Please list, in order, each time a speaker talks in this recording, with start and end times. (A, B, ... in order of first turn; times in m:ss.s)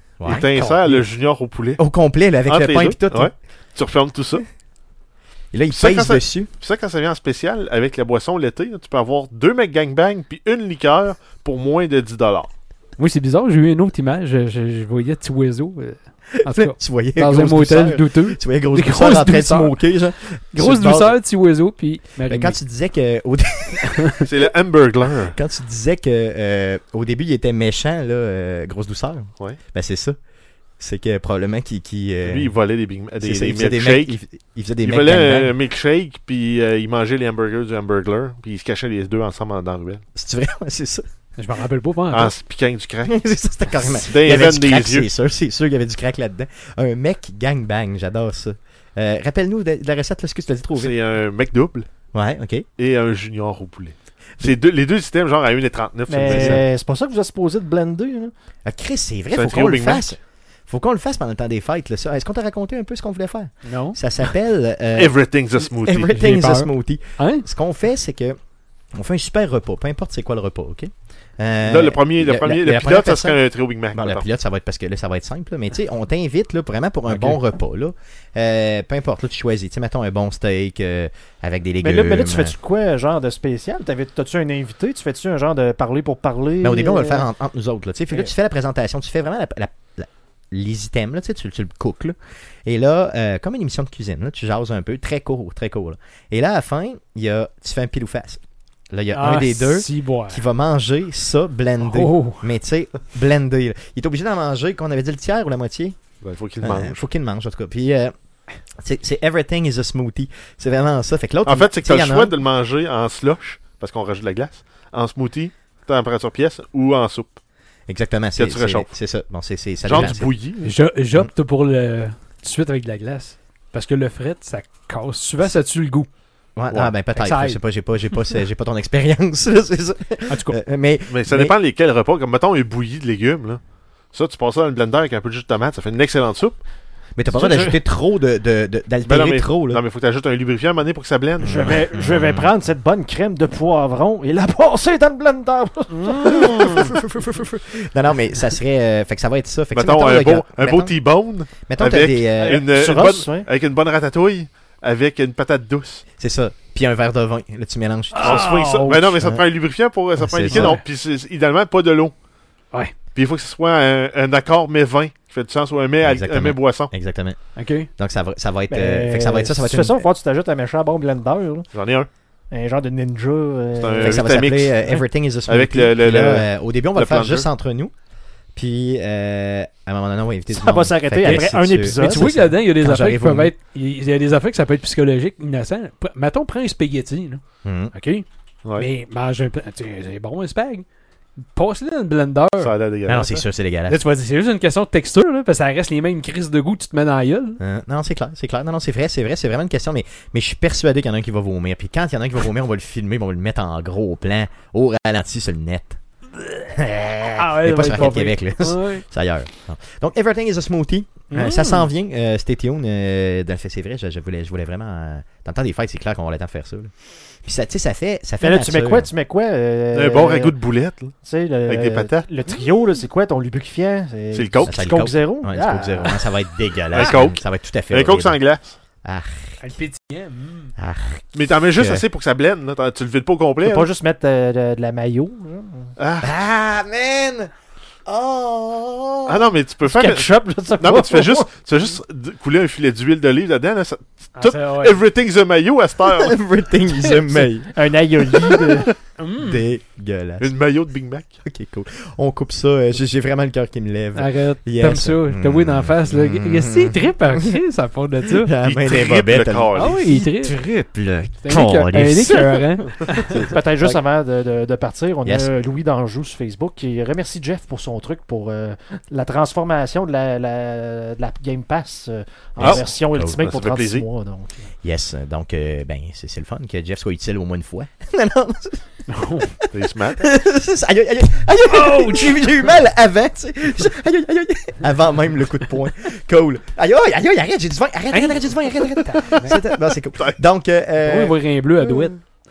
0:00.2-0:01.1 A
0:00.2-0:01.8 B
0:01.8-0:03.3 A
0:02.4-0:04.4 B
0:05.5-0:06.5 A
0:05.7-0:12.5 B
0:13.0-0:19.9 C
0:16.4-0:21.2 A
0:20.5-0:22.6 C
0:22.2-0:24.2 A
0:24.2-0:25.4 B
0:25.3-0:30.2 A
0:30.8-0:32.6 A
0:32.2-0:34.2 B
0:33.2-0:35.5 A
0:34.8-0:40.0 B
0:40.2-0:41.0 A
0:41.4-0:42.3 C
0:42.1-0:43.1 B
0:43.0-0:50.9 A
0:44.1-0:45.1 B
0:50.7-0:51.9 B
0:52.1-0:52.6 A
0:52.8-0:56.6 B
0:56.1-0:58.3 D
0:56.3-0:56.6 A
0:58.6-1:05.2 A
0:59.3-1:00.2 B
1:03.6-1:04.3 C
1:04.9-1:06.1 B
1:05.8-1:08.4 A
1:06.1-1:07.5 C
1:08.9-1:13.4 A
1:11.6-1:14.3 B
1:13.9-1:22.5 A
1:17.1-1:17.4 C
1:21.8-1:27.3 D
1:26.6-1:38.4 A
1:38.9-1:46.0 A
1:39.1-1:40.4 C
1:41.8-1:42.5 C
1:46.2-1:47.0 B
1:46.6-1:48.1 A
1:48.8-1:52.4 A
1:51.4-1:57.4 B
1:57.9-2:00.3 A
1:58.4-1:58.9 B
1:59.8-2:00.7 B
2:00.6-2:06.1 C
2:06.6-2:11.5 A
2:07.1-2:08.2 C
2:10.3-2:10.6 C
2:11.1-2:16.6 B
2:17.1-2:19.8 A
2:17.3-2:17.8 D
2:19.0-2:21.8 B
2:21.4-2:22.5 A
2:21.4-2:27.0 D
2:26.2-2:31.0 A
2:29.7-2:36.0 B
2:31.7-2:32.6 A
2:32.4-2:33.5 D
2:36.2-2:39.5 A
2:38.1-2:39.1 C
2:38.2-2:42.1 B
2:40.2-2:40.7 A
2:40.5-2:40.8 C
2:43.1-2:46.9 B
2:46.0-2:50.0 A
2:47.5-2:47.9 C
2:48.7-2:51.7 D
2:51.7-2:52.1 B
2:52.5-2:54.3 D
2:53.7-2:54.8 B
2:54.0-2:57.9 A
2:55.5-2:57.5 B
2:58.5-3:03.5 A
3:00.5-3:02.6 D
3:01.2-3:10.8 C
3:07.6-3:07.9 A
3:11.5-3:12.8 C
3:12.6-3:13.4 B
3:13.0-3:14.0 A
3:13.8-3:17.6 C
3:17.6-3:26.0 A
3:26.7-3:29.0 C
3:26.8-3:36.9 A
3:31.3-3:31.9 C
3:37.4-3:39.1 A
3:38.4-3:40.6 D
3:39.9-3:41.1 B
3:41.2-3:46.3 D
3:41.6-3:42.3 B
3:44.3-3:44.8 B
3:44.6-3:48.4 A
3:46.9-3:48.8 B
3:49.0-3:49.6 A
3:49.6-3:50.7 C
3:50.8-3:52.0 A
3:51.3-3:53.9 B
3:53.6-3:55.9 D
3:56.0-3:56.3 B
3:56.2-3:57.5 A
3:58.0-3:59.5 A
3:59.3-4:06.4 B
3:59.8-4:01.5 D
4:04.4-4:05.0 C
4:06.0-4:08.5 A
4:07.1-4:07.5 C
4:07.7-4:08.9 D
4:09.2-4:09.6 C
4:09.4-4:10.5 A
4:10.4-4:11.3 B
4:11.4-4:17.5 A
4:14.1-4:18.5 C
4:18.2-4:24.0 A
4:18.6-4:20.1 B
4:19.7-4:20.6 C
4:21.4-4:23.4 C
4:23.4-4:34.7 D
4:25.2-4:25.5 A
4:32.6-4:33.4 A
4:32.6-4:34.1 B
4:34.8-4:39.7 A
4:39.1-4:39.5 C
4:39.7-4:40.3 B
4:40.2-4:52.1 A
4:41.6-4:42.7 C
4:48.1-4:49.6 C
4:51.0-4:52.2 C